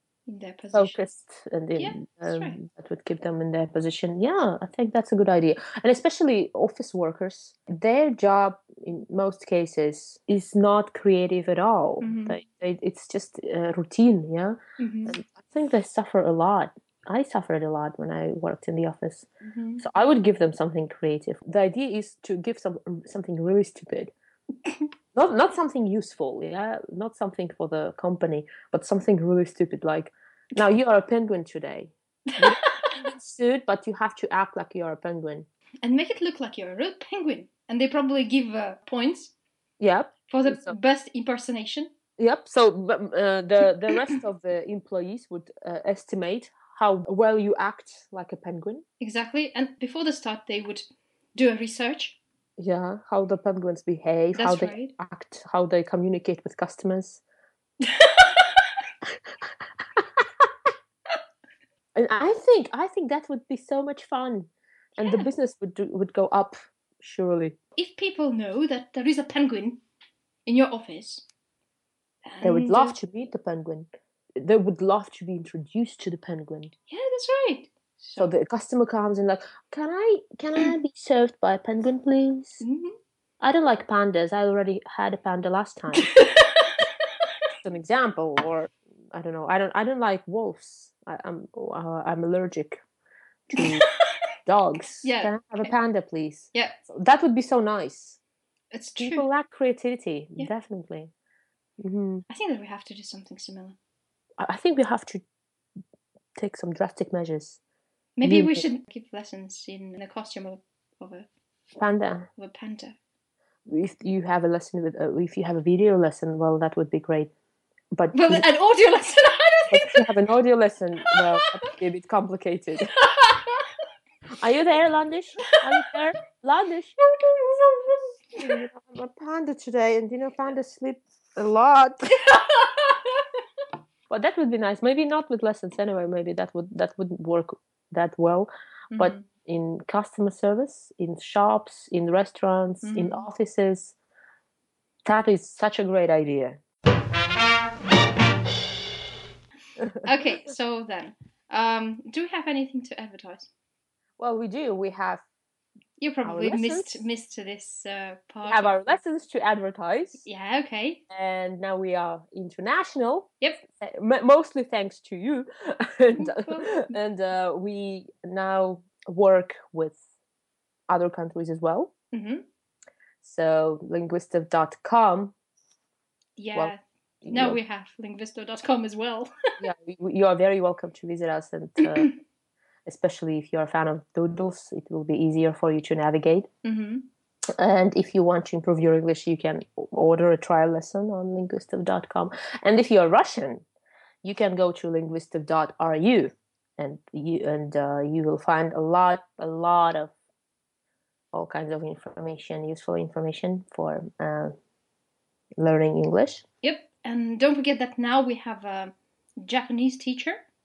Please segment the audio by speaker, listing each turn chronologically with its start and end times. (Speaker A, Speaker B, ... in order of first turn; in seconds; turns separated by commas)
Speaker A: 0.3-1.0, Speaker B: 0.7-19.3, Speaker A: 1.8-2.6, Speaker A: 12.0-12.4, Speaker A: 14.8-15.2, Speaker A: 19.4-19.9, Speaker B: 19.8-24.1, Speaker B: 25.1-35.5, Speaker A: 32.3-33.0, Speaker A: 35.8-39.3, Speaker B: 39.8-40.8, Speaker A: 40.3-41.9, Speaker B: 42.2-48.8, Speaker A: 49.0-52.2, Speaker B: 52.6-57.2, Speaker A: 54.3-54.9, Speaker A: 57.9-58.7, Speaker B: 60.0-60.2, Speaker B: 62.0-67.6, Speaker A: 65.0-65.3, Speaker A: 67.8-69.8, Speaker A: 70.5-71.2, Speaker A: 72.2-73.0, Speaker B: 72.4-73.9, Speaker B: 74.4-76.7, Speaker A: 76.9-78.3, Speaker B: 78.2-82.6, Speaker A: 82.6-83.0, Speaker B: 83.4-86.1, Speaker A: 85.9-86.8, Speaker B: 87.6-92.8, Speaker B: 93.5-93.8, Speaker B: 94.5-98.2, Speaker A: 95.0-95.7, Speaker A: 98.7-99.3, Speaker B: 99.0-101.1, Speaker B: 101.8-102.2, Speaker A: 102.3-103.8, Speaker B: 104.4-105.2, Speaker B: 106.4-107.6, Speaker A: 108.2-111.3, Speaker B: 108.2-108.6, Speaker B: 111.8-112.3, Speaker A: 112.4-113.0, Speaker B: 113.7-117.3, Speaker B: 117.9-118.5, Speaker A: 118.1-120.1, Speaker B: 119.7-122.9, Speaker A: 123.0-123.7, Speaker B: 124.4-127.0, Speaker A: 127.2-128.5, Speaker B: 127.5-132.2, Speaker A: 132.2-133.2, Speaker B: 134.1-143.9, Speaker A: 138.9-139.3, Speaker A: 142.8-143.3, Speaker B: 145.1-146.6, Speaker A: 150.0-153.5, Speaker B: 154.2-155.2, Speaker A: 156.0-159.0, Speaker B: 156.2-157.1, Speaker B: 158.4-160.2, Speaker A: 160.2-161.0, Speaker B: 161.1-170.0, Speaker A: 166.1-167.0, Speaker B: 170.9-171.9, Speaker A: 172.1-172.4, Speaker B: 173.2-175.3, Speaker A: 176.4-179.3, Speaker B: 176.5-177.6, Speaker B: 179.6-182.1, Speaker A: 181.8-182.1, Speaker B: 182.9-186.5, Speaker A: 186.6-187.1, Speaker B: 187.6-193.6, Speaker B: 194.2-200.1, Speaker B: 201.3-204.5, Speaker B: 205.6-206.4, Speaker A: 206.6-210.4